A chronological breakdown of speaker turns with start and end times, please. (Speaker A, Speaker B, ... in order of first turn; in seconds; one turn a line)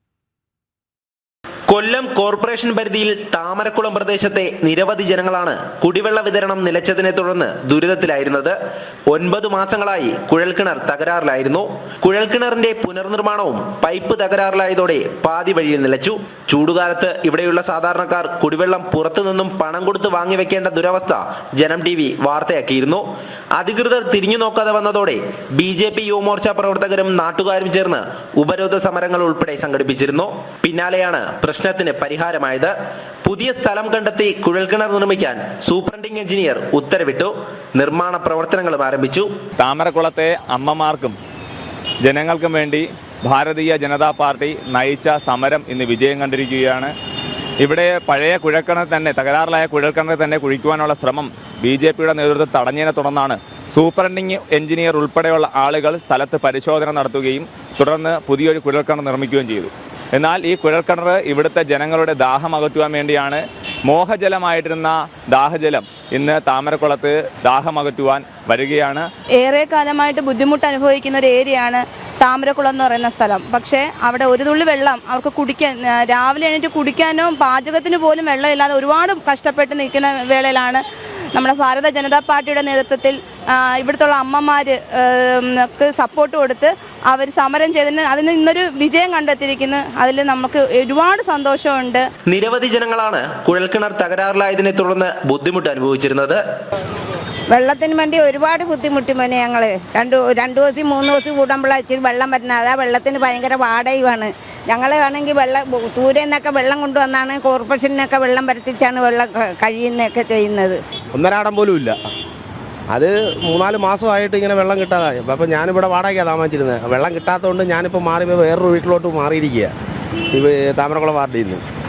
Speaker A: 1.7-8.6
Speaker A: 9.1-39.3
Speaker B: 39.6-41.1
Speaker B: 42.0-46.9
Speaker B: 47.6-69.1
Speaker C: 69.4-80.8
Speaker C: 81.3-92.0
Speaker A: 92.3-96.4
Speaker D: 97.5-110.8
Speaker E: 111.1-112.0
Speaker E: 112.9-119.7
Speaker E: 120.3-121.6